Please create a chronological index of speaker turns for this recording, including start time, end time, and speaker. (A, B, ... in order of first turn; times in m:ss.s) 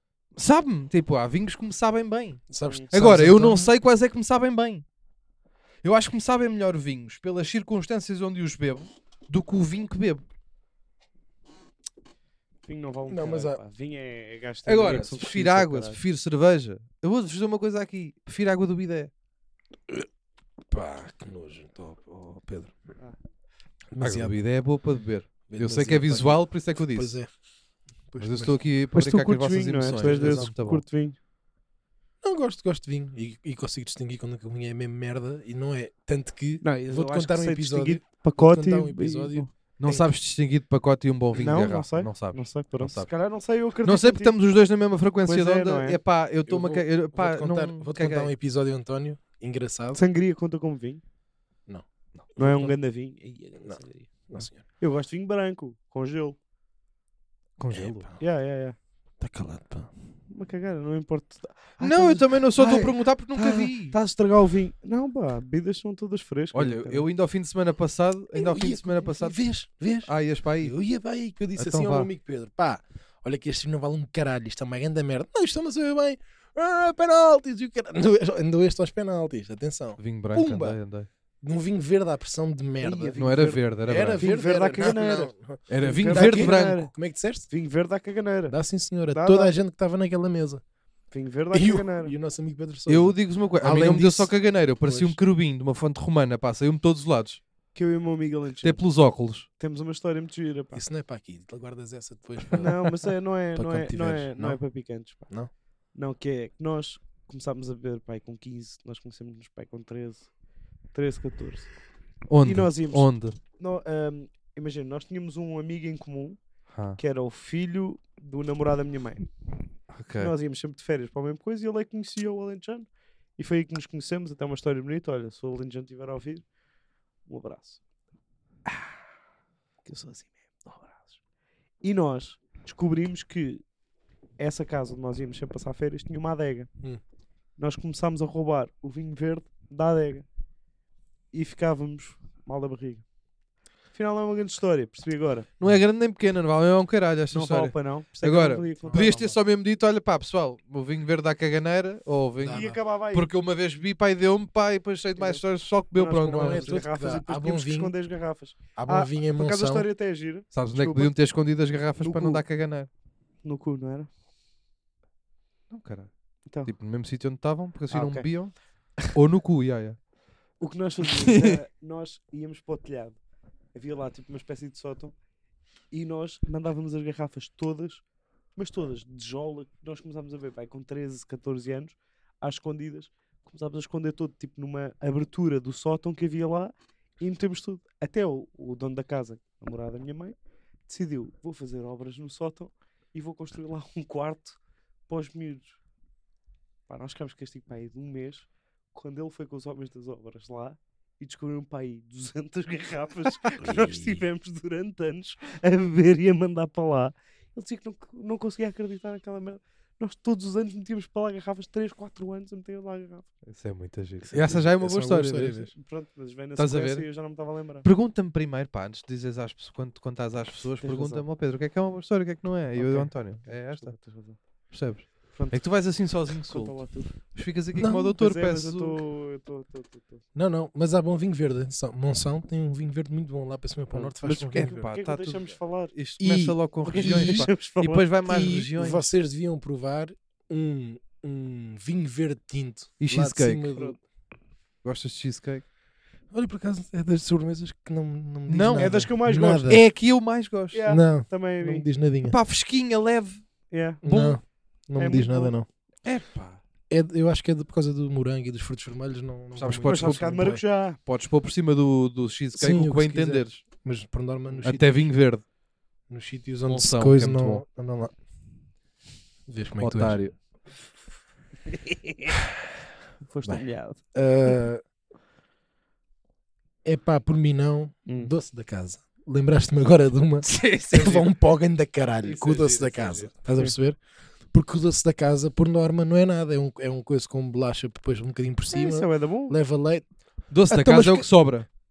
0:00.4-0:04.8 A
0:02.5-0:03.7 B
0:02.6-0:02.9 C
0:05.8-0:10.2 A
0:12.6-0:16.0 C
0:13.1-0:13.6 B
0:14.6-0:19.1 A
0:20.7-0:22.7 B
0:23.9-0:24.3 B
0:24.0-0:27.2 A
0:25.5-0:27.3 B
0:28.1-0:28.6 B
0:28.2-0:30.8 A
0:28.9-0:31.2 C
0:29.9-0:30.5 B
0:32.2-0:40.1 B
0:36.6-0:39.5 C
0:39.8-0:43.1 A
0:41.3-0:44.3 C
0:43.8-0:48.3 A
0:45.2-0:46.0 C
0:46.4-0:50.0 B
0:49.9-0:51.0 C
0:52.4-0:52.7 B
0:52.4-0:54.1 C
0:53.6-0:54.6 B
0:54.8-0:56.4 C
0:57.6-0:58.1 A
0:57.7-0:58.2 B
0:58.2-0:58.8 C
0:59.2-0:59.9 B
1:00.3-1:07.0 C
1:01.8-1:04.0 A
1:02.6-1:02.9 B
1:06.5-1:09.4 A
1:08.3-1:20.8 B
1:10.0-1:10.7 A
1:11.6-1:12.1 A
1:20.0-1:21.1 A
1:21.4-1:27.5 B
1:22.8-1:23.6 C
1:23.2-1:24.3 A
1:24.2-1:26.9 C
1:25.7-1:26.9 A
1:27.5-1:28.6 C
1:28.5-1:30.6 B
1:29.1-1:29.5 C
1:31.1-1:32.1 C
1:31.5-1:35.2 B
1:32.9-1:37.4 A
1:37.7-1:38.8 C
1:38.6-1:39.5 A
1:39.6-1:40.8 C
1:40.7-1:44.6 B
1:42.5-1:45.3 C
1:45.9-1:50.3 C
1:50.9-1:51.7 C
1:52.3-1:53.4 A
1:52.4-1:56.4 C
1:56.7-1:57.0 A
1:57.0-1:59.3 C
1:59.9-2:00.3 A
2:00.2-2:06.4 C
2:07.3-2:07.8 C
2:09.8-2:11.1 C
2:11.8-2:13.6 C
2:14.4-2:16.7 C
2:17.6-2:20.2 C
2:21.3-2:23.0 C
2:23.9-2:25.5 C
2:25.6-2:36.8 A
2:27.3-2:29.3 C
2:28.9-2:29.3 B
2:32.4-2:32.8 B
2:32.5-2:33.3 C
2:35.1-2:35.4 C
2:35.9-2:41.1 C
2:36.2-2:37.9 B
2:38.8-2:39.9 B
2:40.5-2:42.9 A
2:42.0-2:42.4 C
2:43.4-2:44.1 C
2:45.7-2:46.1 A
2:46.5-2:46.7 C
2:46.6-2:50.0 A
2:47.9-2:48.3 C
2:50.6-2:53.2 C
2:51.2-2:51.6 A
2:53.7-2:55.1 C
2:55.9-2:58.0 C
2:58.6-3:15.8 C
3:16.9-3:33.3 C
3:23.6-3:24.2 B
3:33.4-3:35.7 A
3:34.3-3:35.7 B
3:35.7-3:37.8 C
3:36.6-3:37.1 A
3:37.8-3:44.0 A
3:40.8-3:41.2 C
3:42.8-3:44.4 C
3:44.7-3:49.0 A
3:45.3-3:45.6 C
3:46.5-3:47.1 C
3:47.8-3:48.2 B
3:48.2-3:50.2 C
3:50.3-3:54.8 B
3:53.9-3:55.9 C
3:54.5-3:59.1 A
3:56.2-3:57.5 B
3:56.8-3:58.0 C
3:58.2-4:04.0 B
4:03.0-4:03.7 A
4:04.8-4:05.6 A
4:06.3-4:09.8 B
4:08.5-4:09.0 A
4:08.8-4:09.8 C
4:09.7-4:10.8 A
4:10.7-4:11.8 C
4:10.8-4:12.4 B
4:12.2-4:13.4 A
4:13.7-4:14.0 C
4:14.0-4:15.7 B
4:14.0-4:14.4 A
4:15.0-4:15.5 C
4:16.0-4:16.6 A
4:16.9-4:20.6 B
4:19.6-4:23.6 A
4:19.8-4:21.0 C
4:22.5-4:24.9 B
4:24.6-4:25.4 A
4:26.1-4:28.1 B
4:26.7-4:27.6 A
4:29.5-4:30.2 B
4:29.8-4:30.3 A
4:31.7-4:32.4 C
4:33.2-4:34.0 C
4:34.1-4:34.8 B
4:36.8-4:44.0 B
4:38.1-4:38.3 C
4:40.4-4:41.3 A
4:42.2-4:43.3 A
4:44.5-4:50.0 B
4:48.7-4:49.6 C
4:50.5-4:51.7 A
4:50.7-4:51.3 B